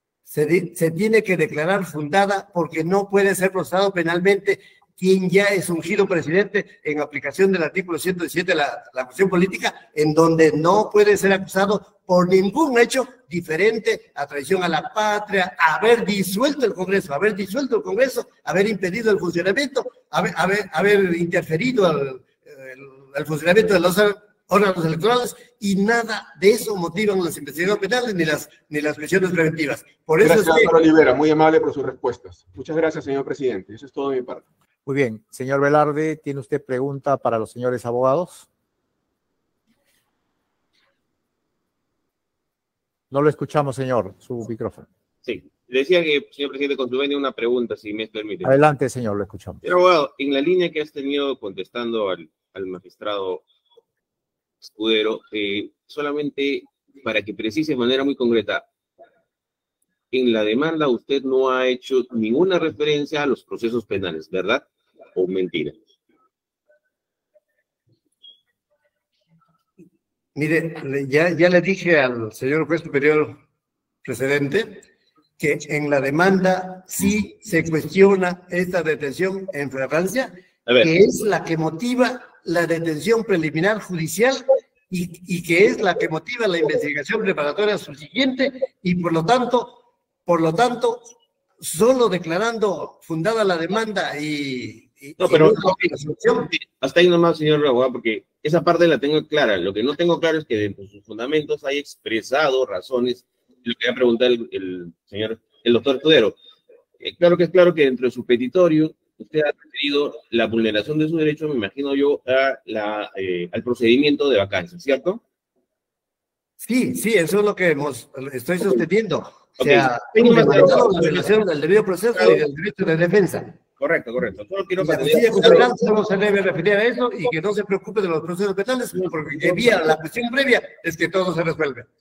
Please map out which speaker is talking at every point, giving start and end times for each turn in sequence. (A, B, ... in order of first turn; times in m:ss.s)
0:00.3-0:30.7 A
0:30.2-0:34.4 B
0:34.8-0:38.4 C
0:43.1-0:44.9 C
0:45.2-0:48.6 D
0:48.4-0:49.6 C
0:49.6-0:53.4 D
0:54.6-0:58.7 D
1:00.1-1:05.8 D
1:10.3-1:13.4 A
1:14.0-1:14.8 A
1:15.4-1:36.5 A
1:35.2-1:35.8 D
1:36.4-1:46.4 D
1:47.0-1:55.2 D
1:56.6-2:03.5 A
1:59.6-2:01.3 D
2:02.2-2:02.4 D
2:03.8-2:05.8 D
2:04.8-2:11.9 A